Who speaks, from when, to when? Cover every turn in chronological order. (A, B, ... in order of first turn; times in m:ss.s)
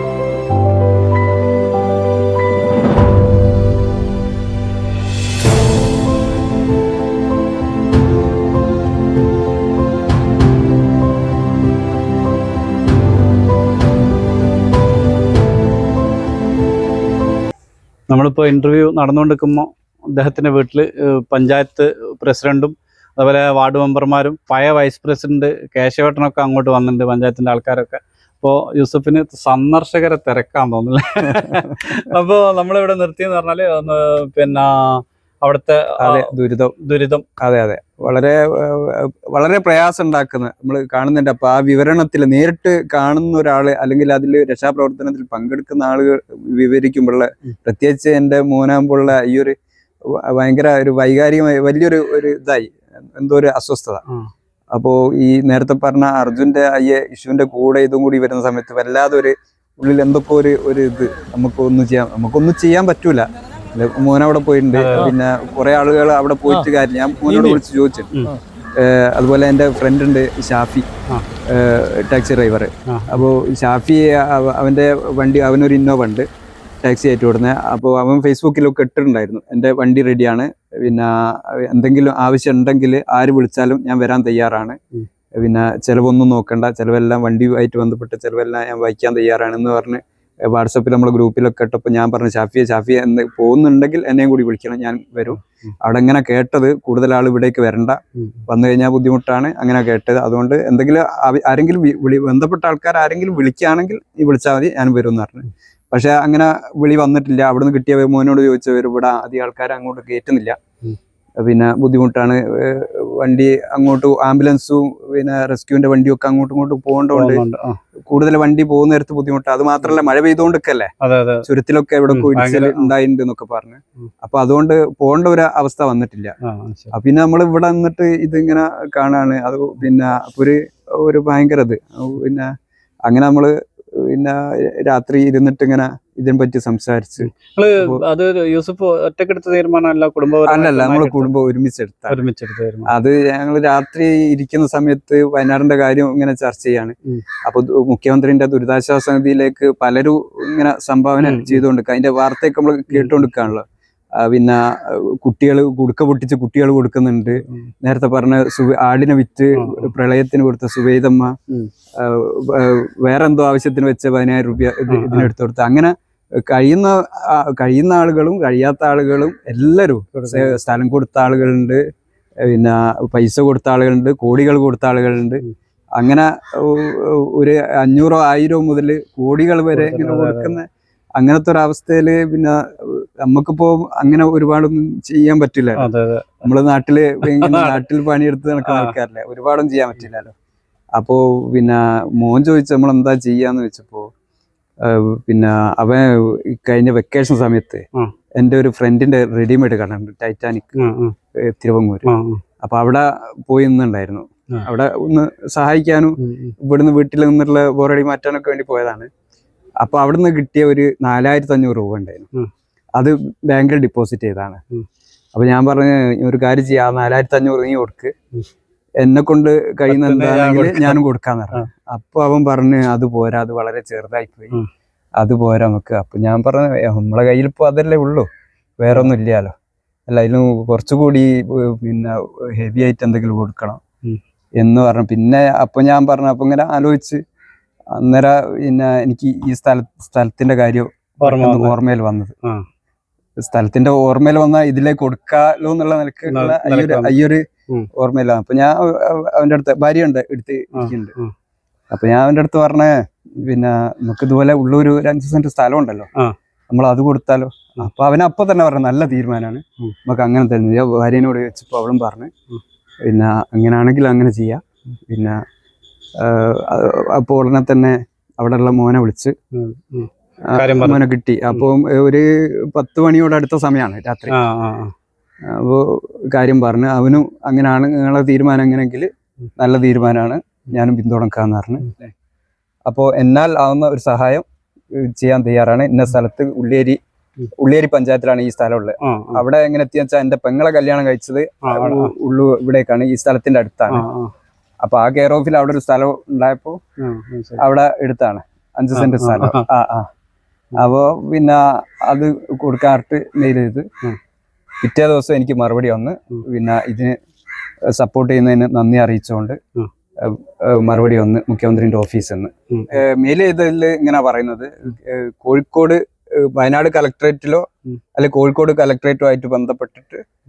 0:18.1-0:37.2 A
0:36.0-0:36.7 B
0:37.4-0:54.0 B
0:54.7-1:08.1 B
1:04.7-1:05.1 A
1:08.8-1:10.9 B
1:11.5-1:16.3 B
1:12.9-1:13.2 A
1:16.8-1:24.8 B
1:25.4-1:50.6 B
1:38.2-1:38.4 A
1:51.4-1:57.4 B
1:57.1-1:57.8 A
1:58.1-2:00.9 B
2:01.0-2:01.4 A
2:01.4-2:06.3 B
2:02.1-2:02.9 A
2:06.4-2:06.9 A
2:06.9-2:12.5 B
2:13.1-2:18.0 B
2:17.2-2:21.4 A
2:20.4-2:22.2 B
2:22.1-2:22.9 A
2:22.9-2:33.6 B
2:31.2-2:31.6 A
2:32.9-2:33.3 A
2:34.2-2:41.3 B
2:39.6-2:39.9 A
2:42.0-2:45.9 B
2:44.9-2:45.3 A
2:46.5-2:51.8 B
2:50.1-2:50.6 A
2:52.4-2:55.4 B
2:56.0-3:00.7 B
2:59.7-3:00.6 A
3:01.2-3:05.9 B
3:05.8-3:06.5 A
3:06.4-3:10.3 B
3:07.2-3:07.8 A
3:08.6-3:09.0 A
3:11.0-3:14.1 B
3:14.8-3:17.8 B
3:18.4-3:20.8 B
3:20.8-3:21.1 A
3:21.4-3:22.1 B
3:22.1-3:22.4 A
3:22.6-3:29.1 B
3:26.2-3:26.5 A
3:29.8-3:32.3 B
3:33.0-3:34.6 B
3:35.3-3:38.1 B
3:39.0-3:44.6 B
3:39.9-3:41.0 A
3:45.2-3:48.3 B
3:48.8-3:49.5 B
3:50.1-3:53.8 B
3:54.6-3:57.2 B
3:57.9-4:02.3 B
4:01.2-4:01.8 A
4:03.4-4:07.4 B
4:06.3-4:07.1 A
4:07.9-4:11.1 B
4:10.8-4:11.3 A
4:11.9-4:16.1 B
4:16.7-4:22.3 B
4:23.1-4:25.4 B
4:26.2-4:29.3 B
4:29.5-4:31.0 A
4:30.5-4:34.4 B
4:34.3-4:34.9 A
4:35.5-4:41.9 B
4:42.9-4:44.4 B
4:45.0-4:47.0 B
4:47.6-4:54.0 B
4:49.0-4:49.4 A
4:51.6-4:52.1 A
4:53.9-4:54.3 A
4:54.8-4:56.8 B
4:57.0-4:57.6 A
4:57.6-5:00.1 B
4:58.9-4:59.6 A
5:00.8-5:03.9 B
5:04.8-5:07.1 B
5:07.9-5:09.6 B
5:10.2-5:20.2 B
5:12.7-5:13.0 A